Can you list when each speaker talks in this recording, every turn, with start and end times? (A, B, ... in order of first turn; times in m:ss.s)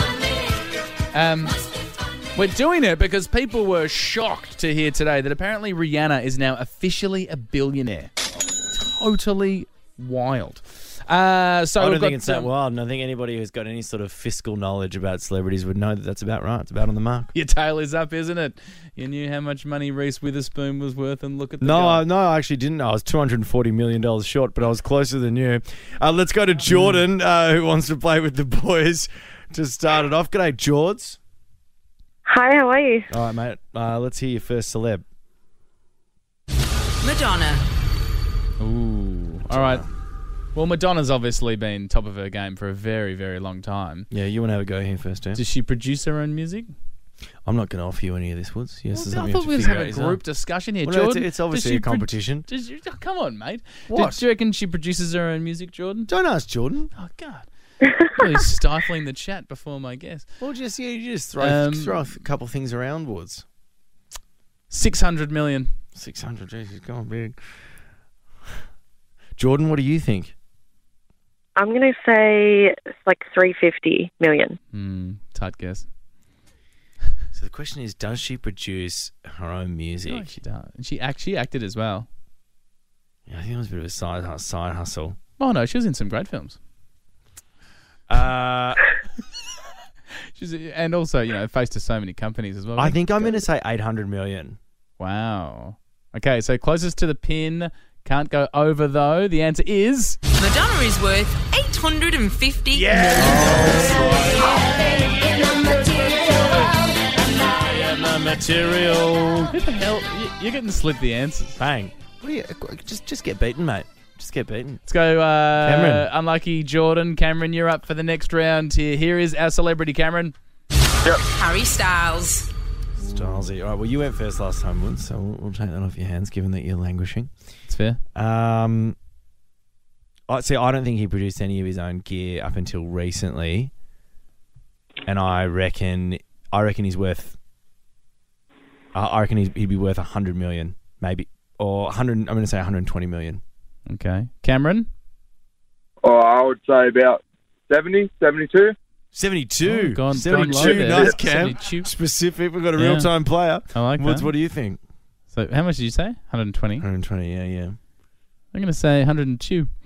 0:01.1-0:01.6 A
0:02.3-0:08.1 A
0:08.7-0:12.5 A
0:11.8-0:17.3 B
0:17.3-0:22.0 A
0:21.6-0:31.2 B
0:26.7-0:27.0 A
0:32.3-0:33.1 C
0:33.1-0:35.0 B
0:37.0-0:37.6 D
0:38.6-0:39.8 A
0:39.5-0:39.9 B
0:40.5-0:44.1 A
0:44.1-0:45.4 B
0:45.3-0:46.7 A
0:47.4-0:50.2 B
0:48.9-0:56.1 A
0:50.8-0:52.5 B
0:53.9-0:54.2 B
0:56.1-0:56.9 B
0:57.0-1:00.3 A
1:00.4-1:03.4 B
1:01.4-1:02.1 A
1:04.7-1:05.7 A
1:05.9-1:07.4 B
1:09.4-1:10.3 B
1:11.6-1:14.6 C
1:14.7-1:15.9 A
1:17.3-1:20.4 B
1:20.1-1:22.1 A
1:23.3-1:25.2 B
1:25.4-1:26.6 A
1:28.1-1:28.8 B
1:30.3-1:33.4 A
1:32.8-1:34.6 B
1:35.0-1:40.2 A
1:40.3-1:43.0 D
1:42.8-1:44.2 A
1:42.8-1:44.5 B
1:46.1-1:46.5 B
1:47.4-1:49.5 B
1:49.5-1:51.6 A
1:51.6-1:54.8 B
1:54.8-2:00.3 A
1:55.6-1:56.1 B
2:01.3-2:02.5 D
2:03.0-2:07.3 B
2:07.7-2:08.0 A
2:08.1-2:09.0 B
2:10.3-2:13.7 B
2:15.0-2:17.4 B
2:18.9-2:23.4 B
2:23.9-2:24.9 A
2:26.0-2:28.8 E
2:29.1-2:34.8 B
2:29.6-2:31.9 A
2:30.4-2:30.7 E
2:32.7-2:33.1 A
2:33.7-2:34.3 A
2:35.3-2:36.8 A
2:36.8-2:37.8 B
2:38.5-2:39.7 A